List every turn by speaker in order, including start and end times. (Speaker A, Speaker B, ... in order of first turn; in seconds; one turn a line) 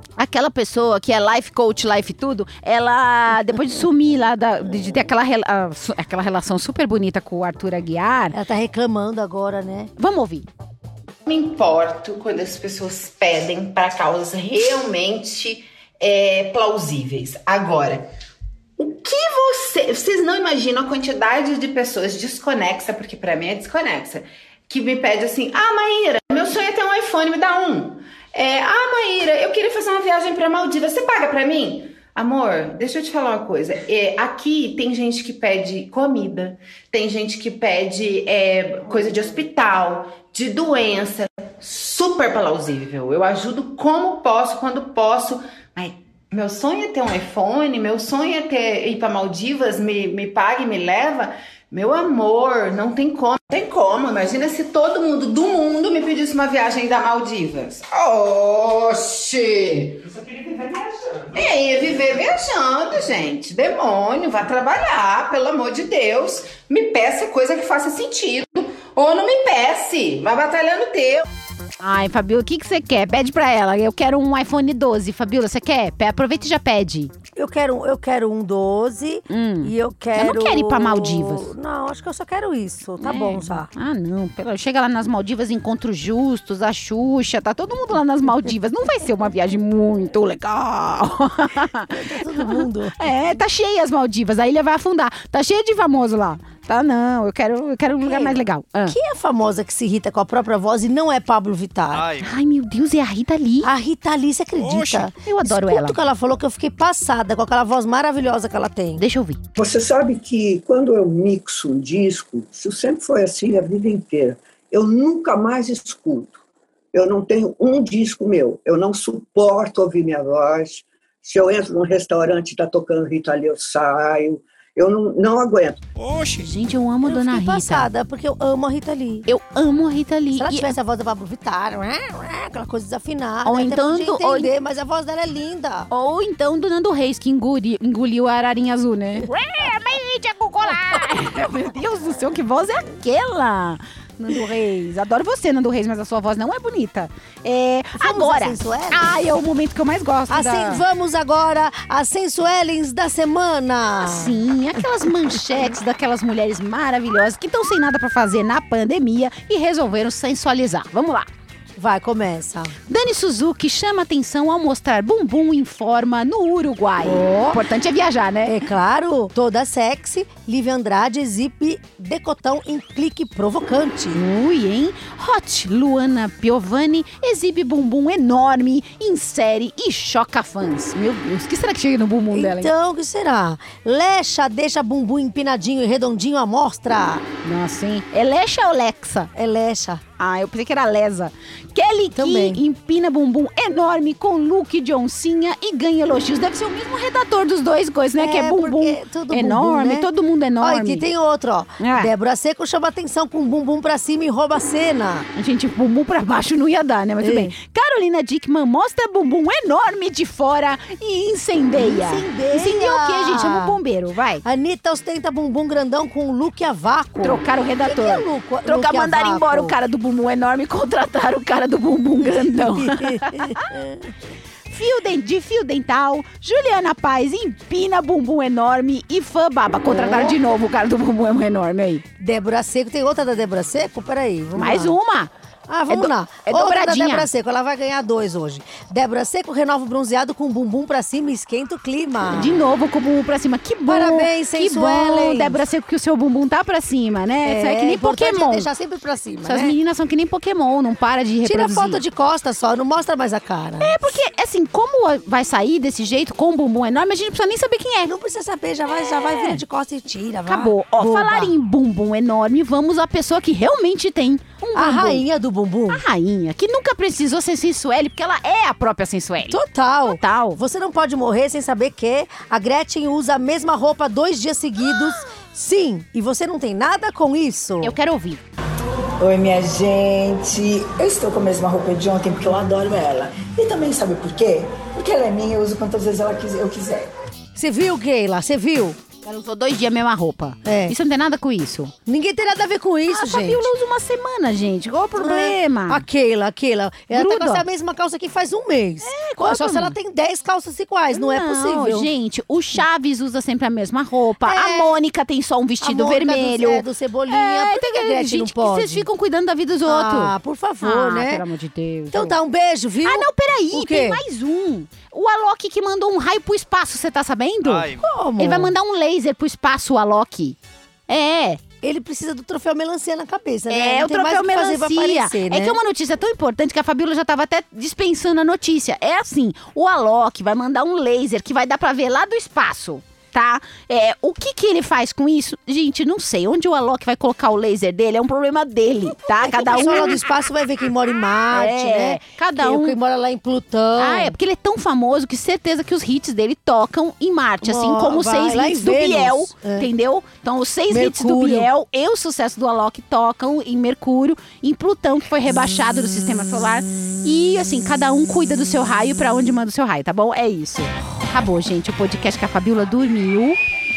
Speaker A: 0.2-8.4
Speaker B: 8.3-9.9
Speaker A: 10.0-10.5
Speaker C: 11.3-18.1
Speaker C: 18.8-71.3
Speaker A: 71.8-77.1
Speaker B: 77.4-83.7
Speaker A: 79.3-81.5
Speaker A: 83.0-99.0
Speaker B: 91.9-93.1
Speaker B: 98.0-102.1
Speaker D: 101.9-102.3
Speaker A: 102.2-103.7
Speaker B: 103.6-109.0
Speaker D: 104.6-105.1
Speaker A: 105.2-106.0
Speaker A: 109.0-109.4
Speaker E: 109.6-116.4
Speaker E: 116.9-125.8
Speaker D: 126.0-126.5
Speaker A: 126.4-127.9
Speaker B: 127.1-129.3
Speaker A: 129.3-130.7
Speaker B: 130.3-135.9
Speaker A: 133.4-134.5
Speaker A: 135.9-150.8
Speaker B: 148.0-149.2
Speaker B: 150.3-154.4
Speaker A: 154.0-161.3
Speaker B: 161.8-162.7
Speaker A: 162.9-168.7
Speaker B: 167.0-167.6
Speaker B: 168.5-174.2
Speaker A: 174.1-182.7
Speaker B: 182.3-187.2
Speaker A: 187.4-189.3
Speaker B: 189.3-190.0
Speaker A: 190.2-201.1
Speaker B: 192.2-192.6
Speaker B: 198.2-200.1
Speaker B: 200.6-205.3
Speaker A: 201.8-202.1
Speaker A: 205.4-214.4
Speaker B: 207.2-207.5
Speaker B: 211.8-213.8
Speaker B: 214.4-219.8
Speaker A: 217.2-223.6
Speaker B: 222.3-224.1
Speaker A: 224.7-232.0
Speaker B: 229.8-230.4
Speaker B: 232.2-235.0
Speaker A: 234.6-235.3
Speaker B: 235.7-242.6
Speaker A: 235.9-237.3
Speaker A: 242.3-248.7
Speaker B: 243.9-245.6
Speaker B: 247.4-249.8
Speaker A: 249.4-252.0
Speaker B: 251.4-254.0
Speaker A: 253.8-258.1
Speaker B: 258.0-261.5
Speaker A: 260.5-265.2
Speaker B: 264.8-266.0
Speaker A: 265.9-270.6
Speaker B: 269.5-278.0
Speaker A: 277.8-278.4
Speaker F: 279.2-287.1
Speaker B: 287.6-289.0
Speaker A: 289.2-291.9
Speaker B: 290.6-291.0
Speaker B: 292.1-293.7
Speaker A: 293.1-296.0
Speaker B: 295.2-302.1
Speaker A: 297.1-297.6
Speaker A: 299.0-299.9
Speaker A: 301.1-312.4
Speaker B: 304.4-305.0
Speaker B: 305.8-309.1
Speaker B: 309.9-311.4
Speaker B: 312.1-314.2
Speaker A: 313.0-320.6
Speaker D: 317.6-318.0
Speaker B: 317.9-318.7
Speaker A: 321.1-321.6
Speaker B: 321.8-325.8
Speaker A: 323.7-340.3
Speaker B: 339.4-344.4
Speaker A: 341.5-343.0
Speaker A: 344.0-363.6
Speaker B: 347.6-349.9
Speaker B: 350.9-351.7